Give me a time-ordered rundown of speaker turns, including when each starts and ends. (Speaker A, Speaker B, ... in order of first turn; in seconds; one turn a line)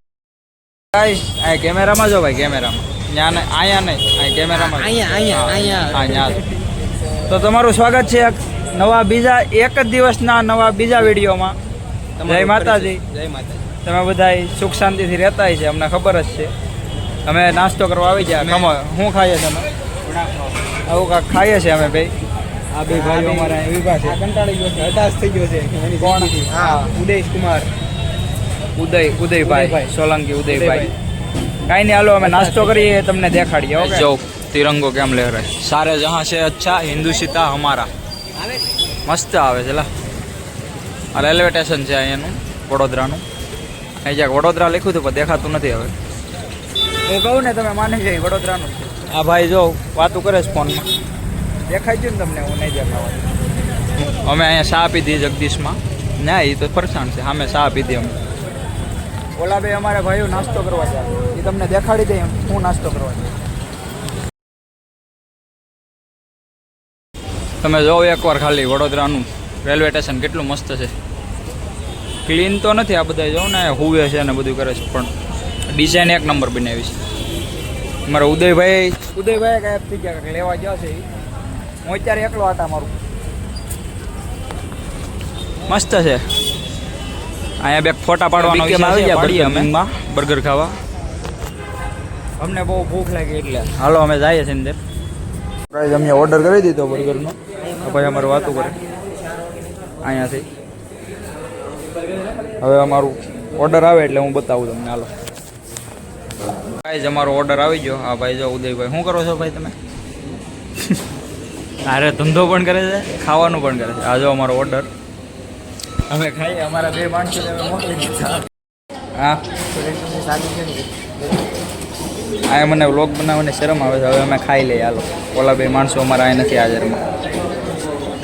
Speaker A: 0.9-6.4
Speaker B: 4.5-6.5
Speaker A: 7.3-11.6
Speaker B: 12.2-13.7
Speaker A: 12.3-13.0
Speaker A: 13.8-16.5
Speaker A: 17.3-19.7
Speaker B: 18.3-18.7
Speaker B: 20.0-20.6
Speaker A: 20.9-22.1
Speaker A: 22.7-24.2
Speaker B: 22.9-27.7
Speaker A: 26.0-26.9
Speaker A: 28.8-30.9
Speaker B: 29.4-30.9
Speaker A: 31.7-37.9
Speaker B: 32.2-33.0
Speaker B: 33.8-34.2
Speaker B: 38.4-38.8
Speaker A: 39.1-39.9
Speaker A: 41.1-43.2
Speaker A: 44.0-45.9
Speaker A: 47.1-50.9
Speaker A: 51.7-53.2
Speaker A: 54.0-58.1
Speaker A: 59.4-63.4
Speaker A: 67.6-70.9
Speaker A: 72.2-75.1
Speaker A: 75.7-77.0
Speaker A: 78.1-81.0
Speaker A: 81.8-82.9
Speaker A: 85.7-86.2
Speaker A: 87.6-90.8
Speaker B: 88.3-89.7
Speaker A: 92.4-94.8
Speaker A: 95.7-98.8
Speaker B: 97.6-98.8
Speaker A: 100.0-100.5
Speaker A: 102.6-105.1
Speaker A: 106.8-109.8
Speaker A: 111.8-114.9
Speaker A: 116.1-118.5
Speaker A: 119.2-119.5
Speaker B: 119.7-121.1
Speaker A: 122.5-127.0